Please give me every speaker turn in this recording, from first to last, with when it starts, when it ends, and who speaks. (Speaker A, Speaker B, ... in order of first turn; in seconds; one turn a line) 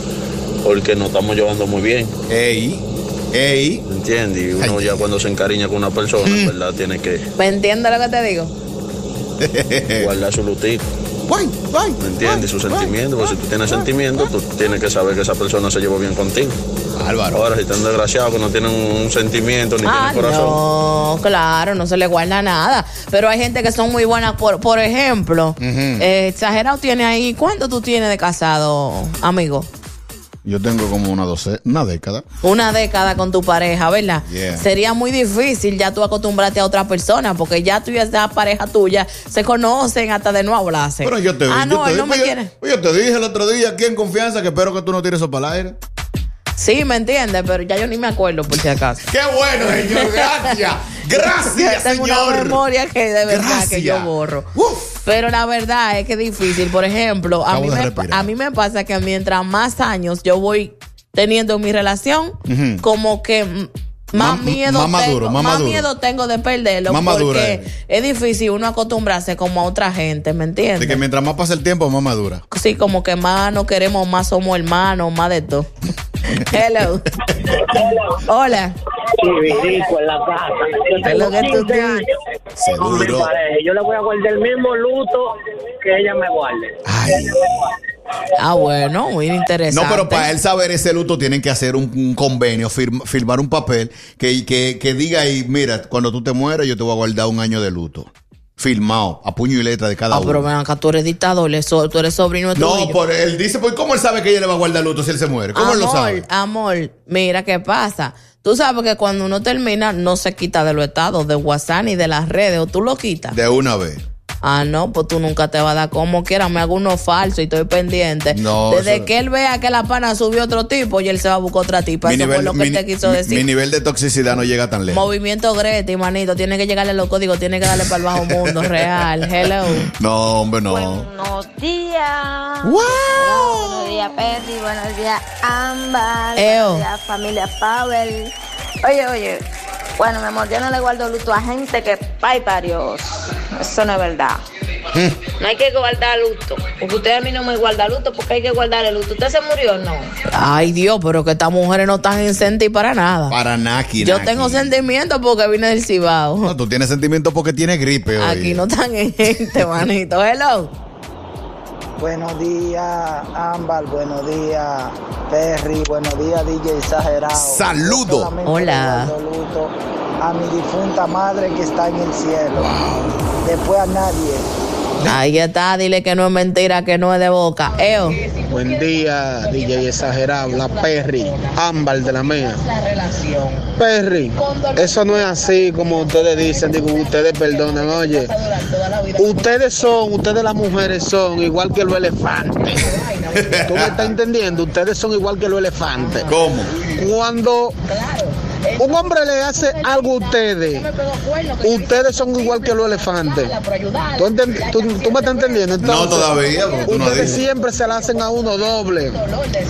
Speaker A: 0.6-2.1
Speaker B: 2.3-3.8
Speaker A: 3.9-7.2
Speaker B: 4.6-5.1
Speaker B: 6.2-6.5
Speaker C: 7.4-8.5
Speaker B: 9.4-10.1
Speaker A: 10.0-10.8
Speaker B: 11.3-13.1
Speaker A: 12.0-16.6
Speaker B: 13.6-14.2
Speaker B: 16.9-17.4
Speaker A: 17.3-20.6
Speaker C: 19.8-29.7
Speaker B: 25.6-26.1
Speaker B: 30.4-32.2
Speaker C: 32.4-42.5
Speaker B: 34.3-34.6
Speaker B: 41.0-45.8
Speaker C: 46.6-49.0
Speaker B: 49.0-52.6
Speaker C: 49.7-50.6
Speaker C: 51.1-54.5
Speaker B: 53.2-55.0
Speaker C: 55.0-71.0
Speaker B: 57.5-58.3
Speaker B: 62.5-62.8
Speaker B: 64.1-65.9
Speaker B: 66.9-67.7
Speaker B: 70.8-72.4
Speaker C: 72.5-75.7
Speaker C: 76.3-77.0
Speaker C: 78.2-78.8
Speaker D: 79.2-82.1
Speaker C: 81.0-82.0
Speaker B: 82.6-83.3
Speaker D: 82.7-87.2
Speaker B: 86.8-87.4
Speaker C: 88.4-90.3
Speaker B: 89.7-100.5
Speaker C: 100.1-103.0
Speaker B: 102.5-106.2
Speaker C: 105.5-113.4
Speaker B: 113.3-114.0
Speaker C: 114.4-123.5
Speaker B: 118.3-119.1
Speaker B: 122.0-125.0
Speaker C: 124.9-129.9
Speaker B: 127.8-131.1
Speaker E: 130.7-139.4
Speaker B: 132.6-134.0
Speaker C: 136.3-136.8
Speaker E: 140.0-144.4
Speaker B: 144.9-145.2
Speaker E: 145.3-150.1
Speaker C: 150.3-153.3
Speaker B: 153.3-154.7
Speaker C: 154.0-156.5
Speaker B: 156.4-158.6
Speaker C: 158.2-160.7
Speaker F: 162.0-172.7
Speaker B: 167.4-168.3
Speaker C: 168.4-169.1
Speaker B: 172.5-173.2
Speaker F: 173.4-174.5
Speaker C: 175.0-178.4
Speaker G: 178.5-182.6
Speaker G: 183.8-188.3
Speaker G: 189.1-192.9
Speaker B: 193.3-194.1
Speaker G: 193.7-196.3
Speaker C: 196.0-196.2
Speaker B: 196.2-197.0
Speaker G: 196.9-197.7
Speaker G: 198.8-200.9
Speaker C: 201.0-201.6
Speaker G: 201.6-203.6
Speaker C: 203.7-204.0
Speaker G: 204.2-209.2
Speaker B: 205.8-207.5